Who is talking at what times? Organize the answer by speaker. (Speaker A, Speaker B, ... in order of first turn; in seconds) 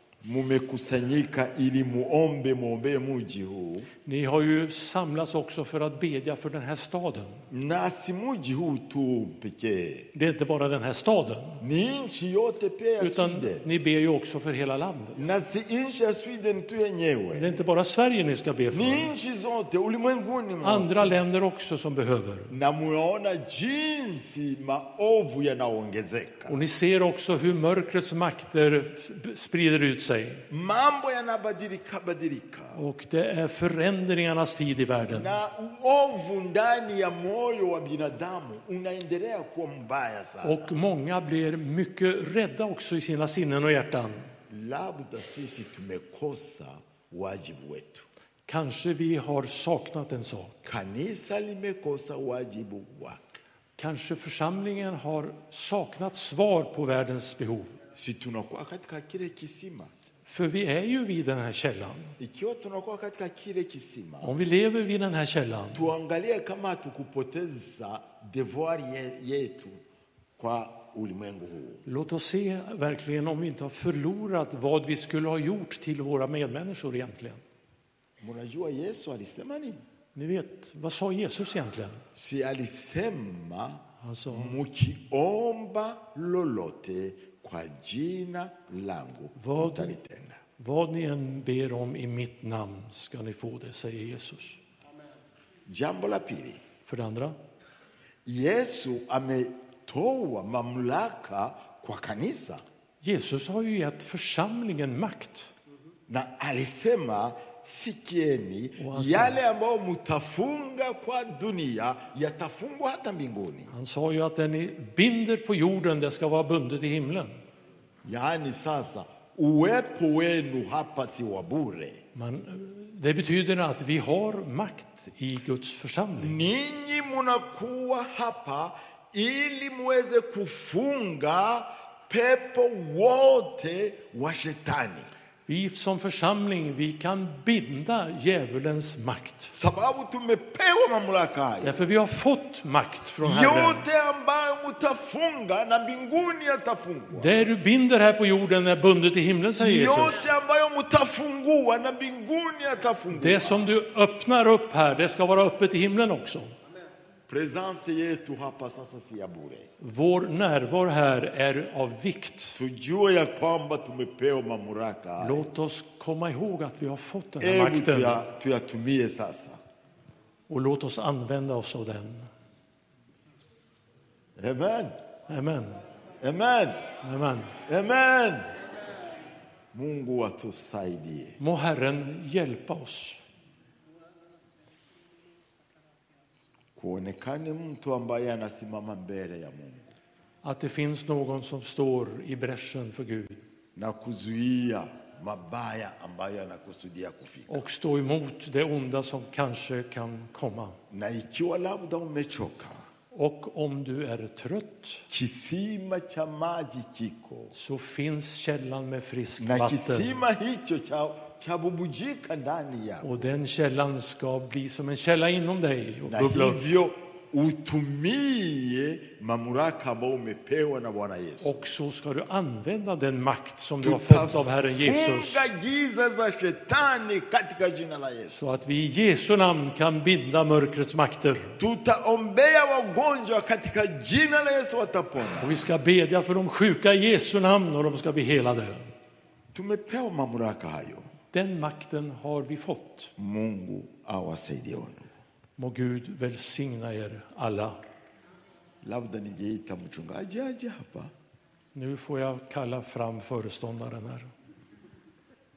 Speaker A: 0.2-3.9, 7.5-10.1, 11.6-13.7, 15.2-17.7, 18.7-21.2, 22.5-26.6, 30.5-32.8, 35.1-40.7, 44.5-48.1, 50.7-53.4, 57.9-60.0, 62.2-64.3, 65.7-69.8, 70.4-71.8, 78.2-79.8, 82.1-90.4, 95.7-96.6, 98.2-102.6, 106.1-113.7, 118.0-122.0, 126.2-135.1, 139.5-141.8, 143.2-147.5, 149.5-153.7, 157.3-159.7, 162.6-165.5, 167.4-169.6, 174.4-174.9, 176.2-176.8, 177.7-178.6, 179.7-181.4, 186.8-189.9, 193.8-197.7, 200.9-202.9, 205.1-207.5, 209.4-213.3, 216.1-221.7, 223.8-228.4, 231.6-235.7, 239.5-241.1, 243.2-245.1, 248.8-251.1
Speaker B: 4.0-7.4, 10.1-11.6, 13.0-15.3, 17.3-19.1, 20.6-22.6, 26.5-30.5, 32.8-35.3, 40.4-44.3, 48.5-50.7, 53.8-57.8, 60.3-62.2, 64.2-65.9, 71.9-77.4, 80.2-82.0, 84.0-84.6, 89.4-90.0, 90.6-94.6, 96.9-97.4, 103.0-105.5, 108.8-109.4, 113.7-117.4, 122.2-126.4, 135.5-139.5, 141.6-143.8, 147.1-150.3, 153.1-156.5, 159.8-162.6, 165.2-168.2, 170.5-172.3, 175.3-175.8, 177.0-177.6, 181.4-183.2, 190.4-193.4, 197.5-200.8, 203.1-205.1, 207.5-210.2, 213.0-216.7, 221.4-225.5, 228.3-231.6, 235.4-238.9, 241.3-243.1, 245.6-247.8, 251.8-254.3